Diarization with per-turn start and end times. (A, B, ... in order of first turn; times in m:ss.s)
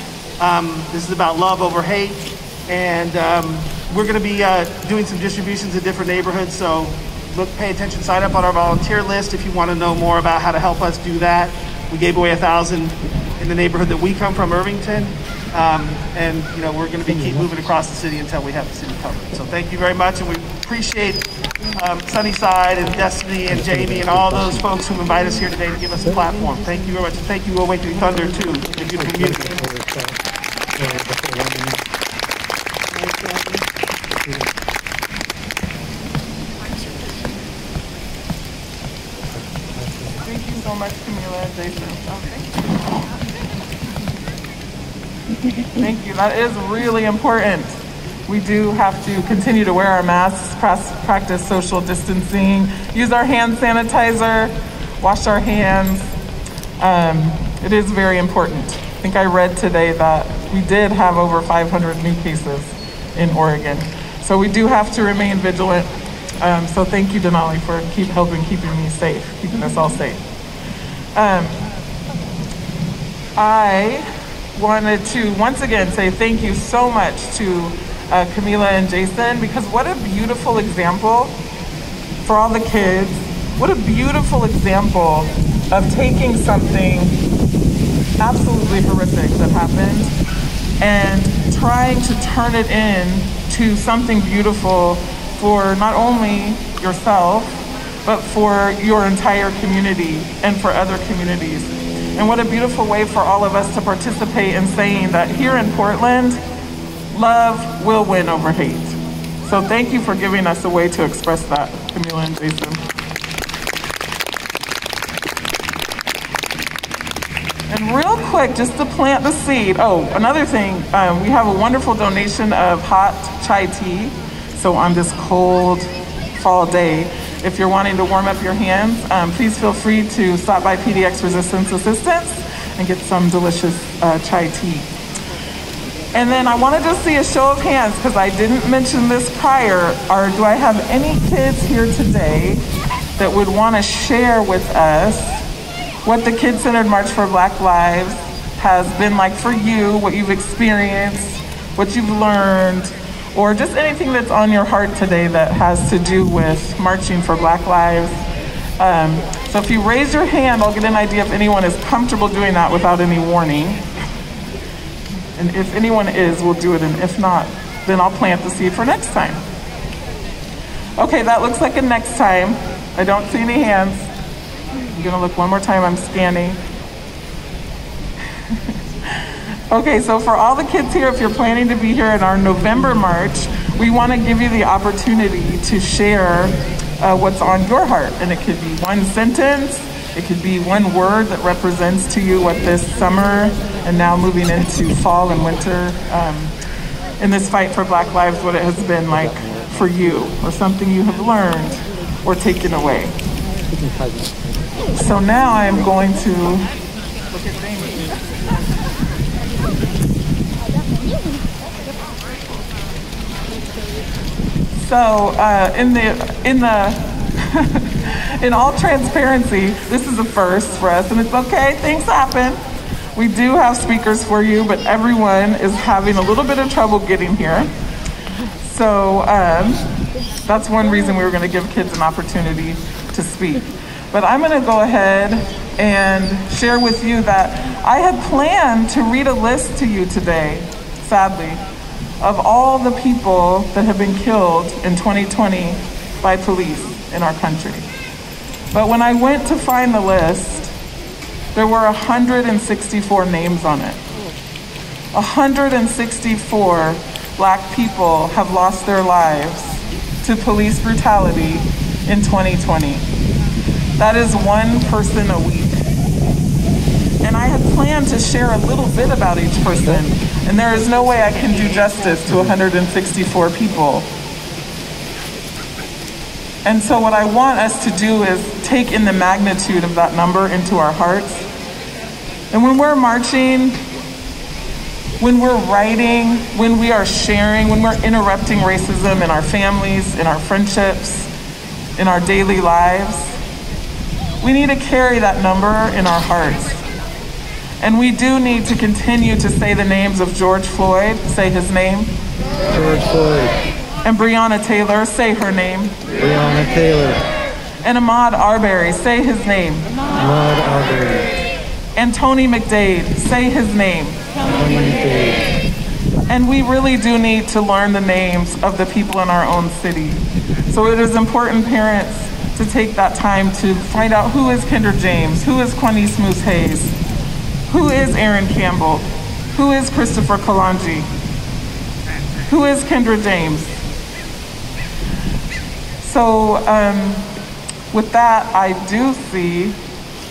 0:00.4-0:29.6 A
0:29.2-0:30.1 B
0:30.8-0:31.8 B
0:40.2-0:42.6 C
0:45.8-0:47.8 C
0:48.3-0:56.1 C
0:56.8-1:05.9 C
1:06.4-1:10.2 C
1:11.1-1:11.6 C
1:13.4-1:21.3 C
1:22.2-1:27.1 C
1:28.2-1:30.1 C
1:30.8-1:46.4 C
1:47.1-1:52.8 C
1:57.7-2:14.8 C
2:16.1-2:22.6 C
2:23.2-2:25.4 C
2:26.0-2:38.1 C
2:38.8-2:43.8 C
2:45.4-2:49.4 C
2:51.0-2:54.1 C
2:54.9-2:56.6 C
2:59.7-3:16.5 C
3:17.2-3:23.1 C
3:23.7-3:24.5 B
3:24.9-3:26.7 C
3:34.8-3:42.6 C
3:43.2-3:47.7 C
3:48.6-3:49.8 C
3:50.4-4:01.6 C
4:02.2-4:07.8 C
4:08.7-4:10.7 C
4:11.5-4:14.0 C
4:15.1-4:23.0 C
4:24.0-4:25.8 C
4:27.2-4:34.1 C
4:36.6-4:41.4 C
4:42.5-4:43.8 C
4:45.2-4:51.3 C
4:52.0-4:53.4 C
4:54.4-4:56.8 C
4:57.8-5:02.1 C
5:02.7-5:03.6 B
5:04.0-5:06.0 C
5:06.1-5:07.2 B
5:07.8-5:09.9 C
5:10.1-5:11.3 B
5:12.0-5:14.2 C
5:14.5-5:15.4 B
5:16.3-5:26.9 C
5:27.7-5:31.1 C
5:32.5-5:33.7 C
5:36.0-5:37.3 C
5:37.9-5:39.8 C